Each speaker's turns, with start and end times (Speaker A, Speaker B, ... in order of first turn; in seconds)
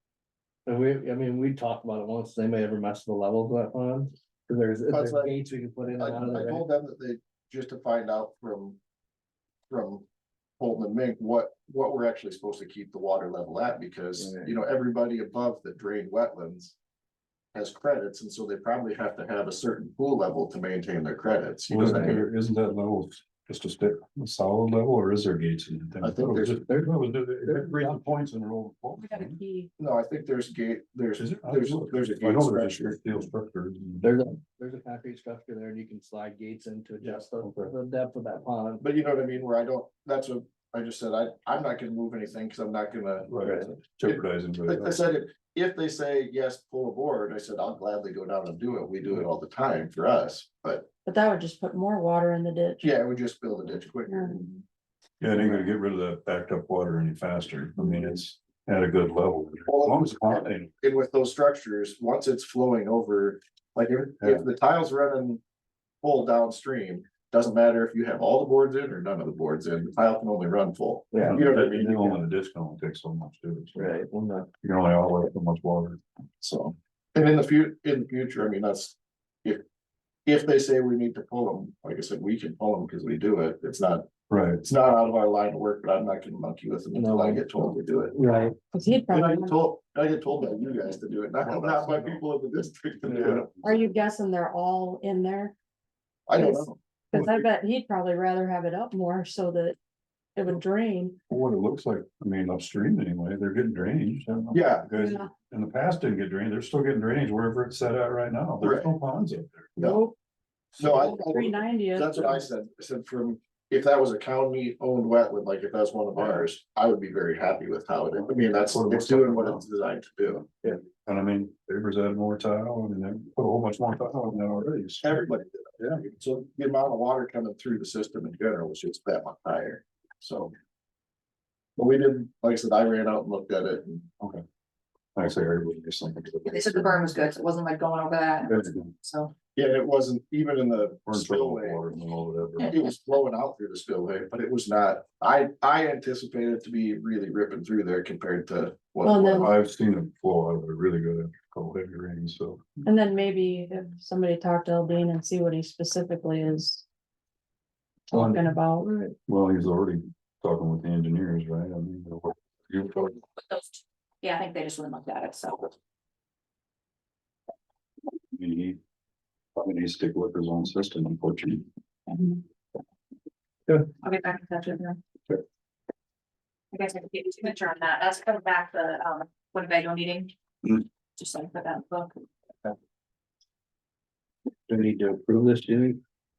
Speaker A: 0.7-6.7, 14.2-14.6, 21.8-22.2, 26.7-28.1, 34.0-38.8, 71.1-71.5, 73.8-74.5, 86.9-88.5, 158.1-159.2, 184.7-186.0
Speaker B: 4.9-5.3, 5.9-8.8, 9.7-10.1, 10.6-16.8, 17.5-22.2, 26.0-26.6, 29.8-33.0, 38.8-50.9, 52.8-54.6, 55.2-55.7, 59.7-65.4, 66.0-72.2, 76.4-79.6, 80.2-84.1, 84.6-88.2, 89.1-93.6, 96.3-97.4, 104.5-104.9, 108.6-108.9, 109.8-110.0, 110.8-120.8, 125.0-130.5, 131.8-134.1, 139.6-141.8, 142.7-149.5
Speaker C: 21.7-29.4, 31.2-34.1, 37.4-37.7, 43.3-45.0, 55.2-60.7, 71.2-74.0, 74.6-76.0, 84.3-84.6, 91.4-92.2, 93.0-93.6, 101.3-109.7, 110.8-111.5, 118.1-119.6, 120.7-126.0, 135.1-137.1, 138.4-138.9, 141.1-142.8, 149.3-152.7, 159.3-163.2, 168.3-168.8, 169.5-171.7
Speaker D: 29.0-29.7, 51.0-52.9, 54.1-54.4, 88.7-89.6, 93.6-95.5, 96.3-99.8, 100.3-101.2, 104.9-105.3, 109.8-110.1, 111.1-112.4, 149.0-149.4, 152.8-156.8, 158.1-158.9
Speaker E: 136.4-139.3, 163.4-165.7, 172.1-172.4, 174.0-175.0, 176.7-182.2